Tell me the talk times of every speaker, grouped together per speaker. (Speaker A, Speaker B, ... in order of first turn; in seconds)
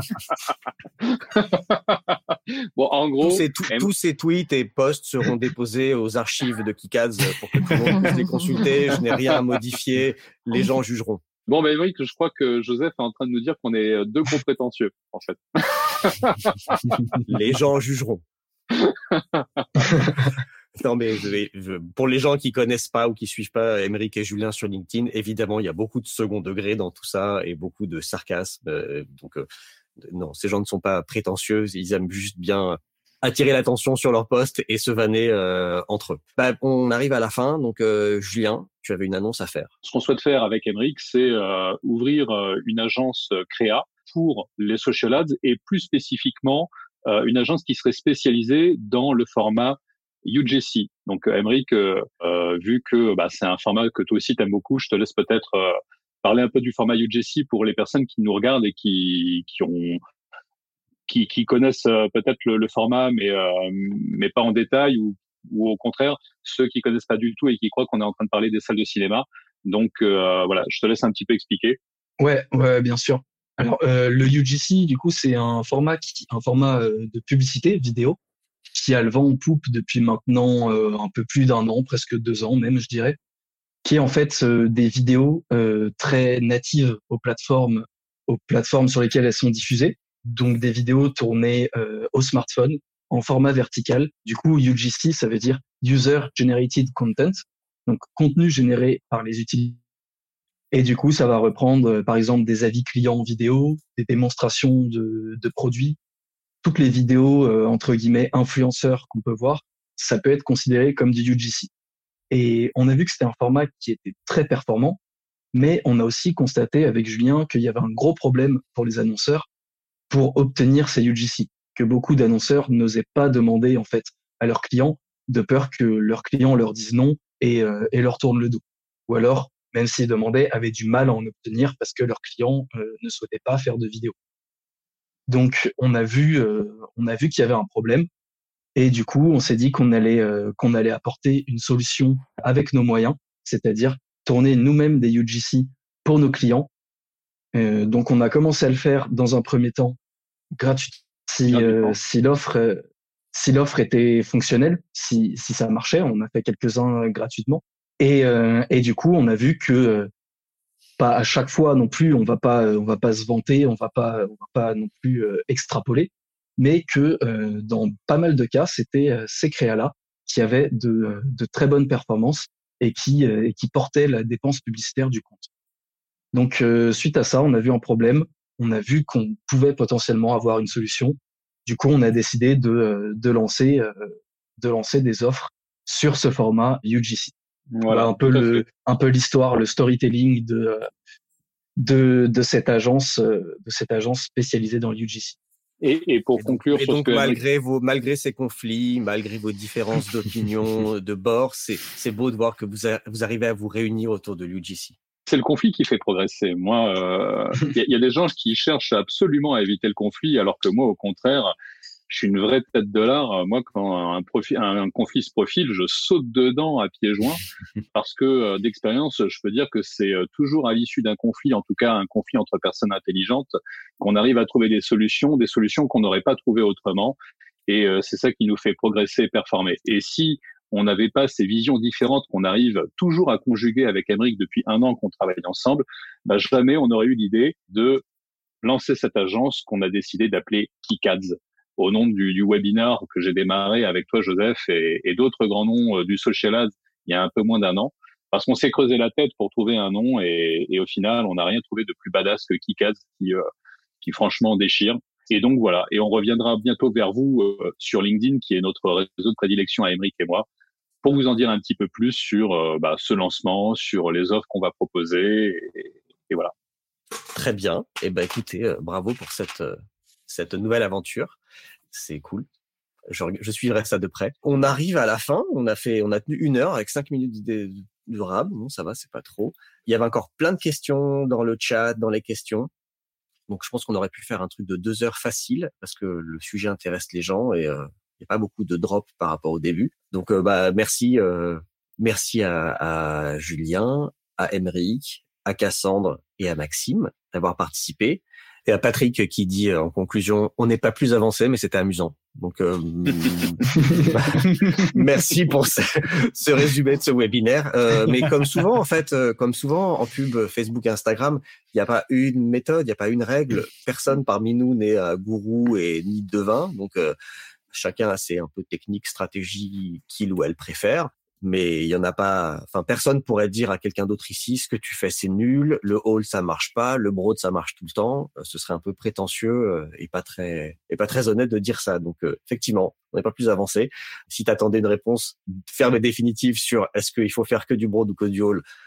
Speaker A: 1.0-3.9, 11.5-17.2, 18.7-19.8, 39.8-60.0, 61.1-71.8, 151.5-151.9, 187.7-188.6, 195.8-197.4, 205.3-211.5, 212.1-217.4, 217.9-238.0, 238.6-253.4, 254.0-260.4, 261.0-266.5
Speaker B: 3.2-11.2, 17.2-18.2, 20.8-29.5, 30.0-39.7, 196.4-205.0, 267.3-269.8, 270.3-271.4, 271.9-272.5, 273.1-282.7, 283.5-317.1, 317.7-338.6
Speaker C: 72.2-78.2, 78.7-83.2, 83.8-99.8, 100.7-106.0, 106.6-111.7, 112.3-115.0, 115.5-119.5, 120.1-134.1, 135.3-138.1, 138.8-146.7, 147.5-150.0, 150.6-160.1, 161.0-175.5, 176.3-187.3, 187.9-190.9, 191.8-195.4